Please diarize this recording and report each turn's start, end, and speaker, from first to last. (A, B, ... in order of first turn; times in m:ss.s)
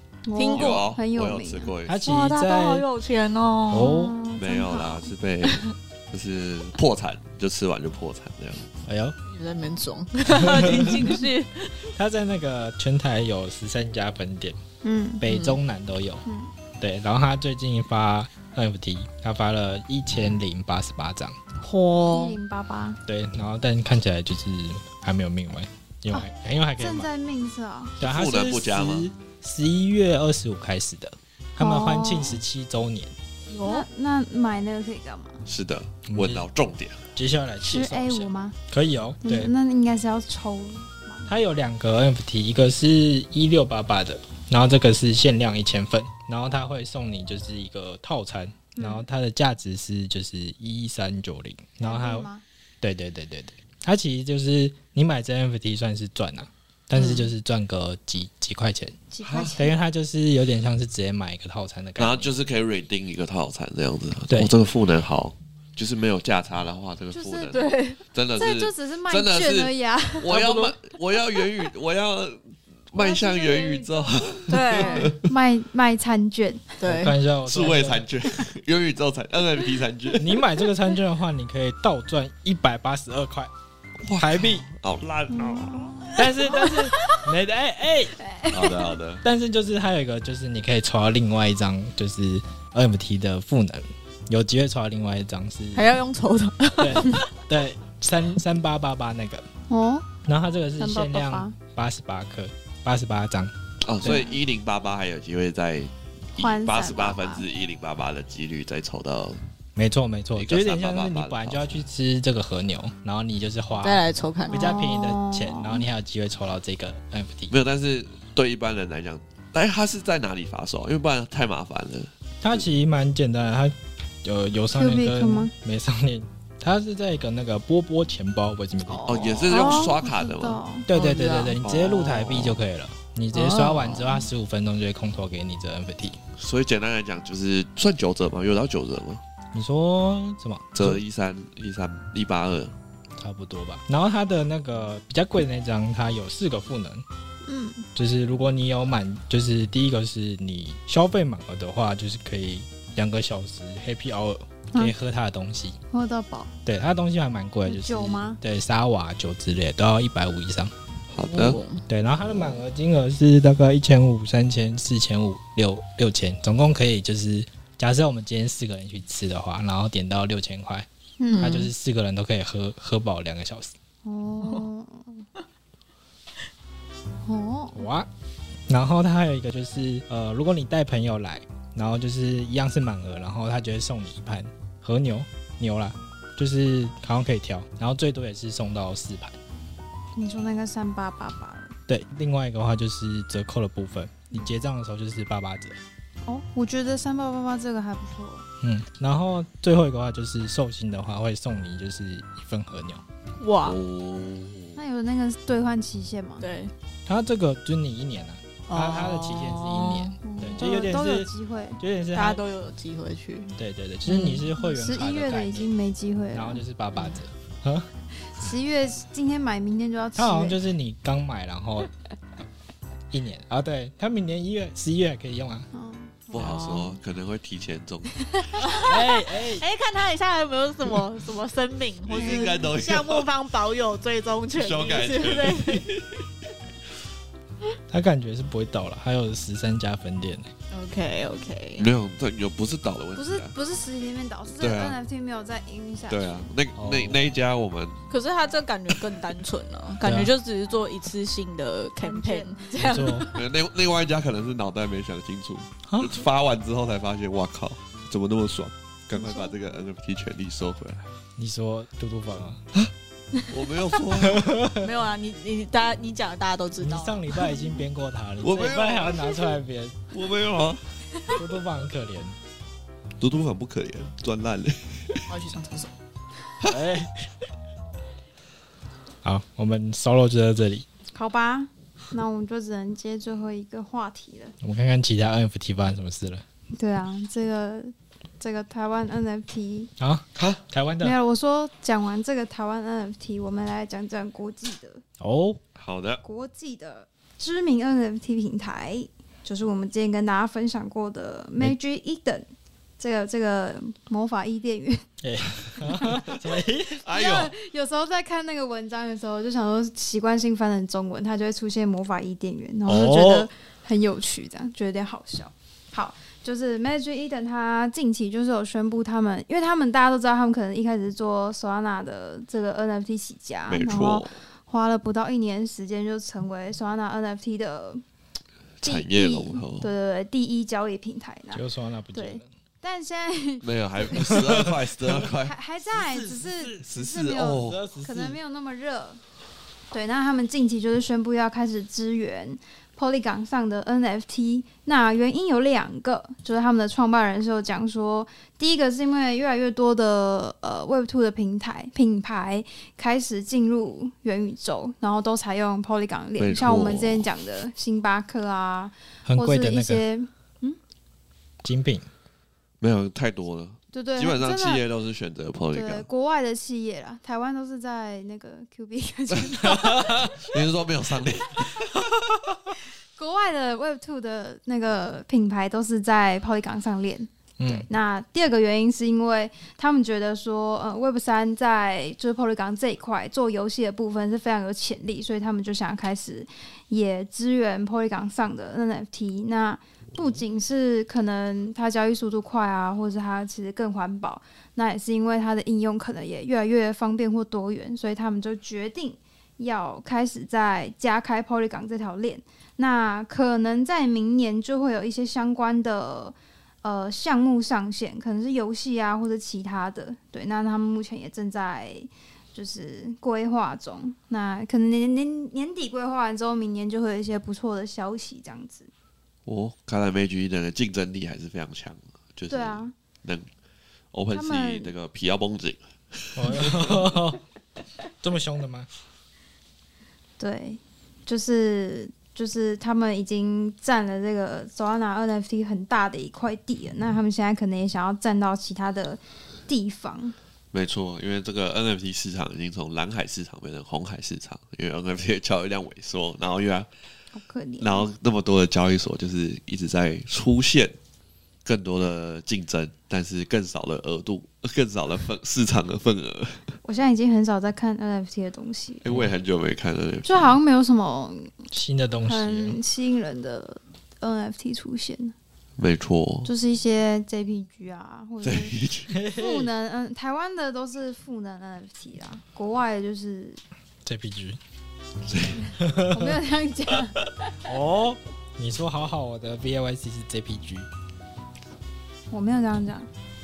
0:00.3-0:01.7 A
0:00.3-0:00.8 B
0:00.6-0:02.0 C
0:01.9-0:02.9 D
0:02.0-0:04.0 B
0:03.7-0:04.1 D
0:03.7-0:05.1 A
0:04.4-0:08.8 C
0:08.9-0:09.2 D
0:09.2-0:11.9 B
0:10.4-0:11.1 D
0:12.0-0:14.6 D
0:14.8-0:15.2 A
0:15.2-0:16.2 D
0:15.3-0:15.6 B
0:16.3-0:16.5 A
0:16.8-0:21.4 D
0:21.6-0:22.4 B
0:22.1-0:23.0 A
0:23.1-0:27.1 D
0:26.8-0:28.0 A
0:28.0-0:33.1 D
0:28.0-0:29.1 C
0:31.6-0:32.4 A
0:33.5-0:33.9 B
0:33.6-0:35.4 A
0:35.5-0:37.1 C
0:36.1-0:36.4 D
0:37.2-0:39.5 D
0:37.6-0:38.6 A
0:39.2-0:41.3 A
0:41.3-0:52.3 D
0:48.8-0:49.0 A
0:51.8-0:52.4 A
0:52.8-0:59.0 D
0:56.9-0:57.3 B
0:59.1-0:59.7 A
0:59.2-0:59.6 C
0:59.6-1:02.3 D
1:02.0-1:15.3 C
1:07.1-1:07.6 A
1:07.5-1:08.0 B
1:08.4-1:10.3 A
1:10.3-1:10.7 B
1:13.0-1:16.8 A
1:14.5-1:15.1 B
1:16.8-1:17.1 B
1:16.8-1:18.0 D
1:17.4-1:20.4 C
1:20.2-1:23.5 D
1:24.0-1:26.1 C
1:24.2-1:24.7 D
1:25.3-1:26.9 A
1:26.2-1:28.1 D
1:26.5-1:26.8 B
1:28.2-1:29.0 A
1:28.5-1:29.2 C
1:29.2-1:35.9 D
1:35.7-1:37.2 B
1:36.8-1:39.4 D
1:39.7-1:40.1 A
1:40.3-1:43.5 D
1:40.8-1:41.6 A
1:43.8-1:49.4 C
1:44.0-1:44.4 A
1:46.4-1:47.4 A
1:49.8-1:57.5 D
1:50.4-1:51.8 C
1:53.8-1:54.8 B
1:54.5-1:55.9 A
1:57.5-2:02.7 C
2:02.4-2:09.2 D
2:04.7-2:05.5 A
2:08.9-2:10.8 A
2:09.1-2:10.6 C
2:09.1-2:09.9 B
2:10.9-2:16.2 D
2:10.9-2:11.6 B
2:11.6-2:12.6 C
2:13.3-2:14.2 B
2:16.4-2:19.2 C
2:19.5-2:21.0 D
2:20.7-2:22.7 C
2:23.2-2:27.0 D
2:27.4-2:27.8 A
2:28.0-2:35.8 D
2:35.9-2:36.5 A
2:36.6-2:40.7 D
2:37.6-2:38.4 A
2:41.1-2:41.6 C
2:41.2-2:41.8 B
2:41.9-2:50.9 D
2:51.2-2:51.7 B
2:51.4-2:53.7 D
2:54.0-2:55.2 A
2:57.3-2:57.9 A
2:57.7-2:58.1 D
2:58.7-3:09.4 D
3:10.2-3:11.7 A
3:11.9-3:15.8 D
3:16.3-3:18.4 A
3:18.6-3:23.0 D
3:23.4-3:23.8 B
3:23.6-3:24.8 C
3:24.8-3:26.4 A
3:26.4-3:26.7 B
3:27.1-3:32.4 D
3:28.7-3:30.8 B
3:30.2-3:31.8 A
3:32.1-3:33.5 B
3:33.6-3:35.7 D
3:34.1-3:34.4 B
3:34.6-3:36.6 A
3:36.3-3:37.9 D
3:38.4-3:40.6 A
3:40.2-3:41.9 D
3:43.1-3:45.7 D
3:45.7-3:46.5 A
3:46.3-3:48.5 C
3:46.3-3:47.0 B
3:48.7-3:55.9 B
3:48.8-3:49.6 D
3:52.1-3:53.3 C
3:52.2-3:52.6 A
3:54.6-3:56.4 C
3:57.9-4:00.5 D
4:00.7-4:01.9 B
4:01.8-4:03.6 C
4:03.1-4:06.5 A
4:04.6-4:05.0 C
4:06.1-4:08.1 C
4:06.8-4:07.2 D
4:08.1-4:13.3 B
4:10.0-4:10.3 D
4:12.0-4:13.4 A
4:12.8-4:13.3 D
4:13.3-4:21.1 C
4:15.9-4:16.2 D
4:19.1-4:19.5 A
4:21.4-4:22.6 D
4:23.5-4:24.6 C
4:24.3-4:24.8 D
4:24.8-4:27.2 B
4:26.8-4:30.0 D
4:27.4-4:27.7 A
4:28.4-4:29.3 C
4:30.1-4:30.8 C
4:31.3-4:32.4 D
4:33.2-4:35.2 C
4:35.3-4:35.9 B
4:36.6-4:37.3 D
4:39.2-4:40.8 D
4:41.1-4:44.6 A
4:44.6-4:46.4 D
4:46.7-4:49.9 A
4:50.0-4:51.2 D
4:50.4-4:50.6 C
4:51.0-4:55.0 A
4:55.2-4:55.6 D
4:55.8-4:56.2 C
4:56.2-5:02.5 A
5:03.0-5:05.0 A
5:05.2-5:07.0 D
5:05.8-5:06.3 A
5:07.0-5:07.5 C
5:07.1-5:28.0 A
5:12.9-5:13.5 D
5:23.7-5:24.4 C
5:28.8-5:29.9 C
5:28.8-5:34.4 A
5:31.5-5:32.4 D
5:33.6-5:35.6 C
5:34.2-5:35.3 D
5:35.4-5:39.2 A
5:35.8-5:36.9 D
5:36.8-5:37.8 C
5:37.5-5:38.4 D
5:39.9-6:00.8 A
5:56.4-5:57.3 C
5:59.3-6:00.0 D
6:01.6-6:02.1 D
6:02.8-6:06.1 C
6:03.9-6:04.8 A
6:05.7-6:10.4 A
6:09.4-6:12.7 C
6:13.2-6:58.9 A
6:17.6-6:17.9 D
6:59.4-7:03.5 C
7:02.5-7:02.9 A
7:04.1-7:07.1 C
7:04.3-7:04.9 A
7:06.4-7:07.4 D
7:08.2-7:08.9 D
7:10.4-7:20.3 A
7:20.7-7:26.9 C
7:27.3-7:28.1 A
7:27.8-7:31.0 C
7:31.6-7:36.8 C
7:36.8-7:39.1 A
7:39.0-7:40.6 C
7:40.2-7:41.6 A
7:41.7-7:42.8 D
7:42.3-7:45.3 A
7:45.8-7:46.5 C
7:46.4-7:48.7 A
7:48.4-7:49.1 C
7:49.1-7:49.7 D
7:49.3-7:53.6 A
7:54.0-7:54.6 D
7:55.2-7:55.7 C
7:55.8-7:56.4 D
7:56.1-7:57.5 A
7:57.7-8:00.9 D
8:02.3-8:03.1 A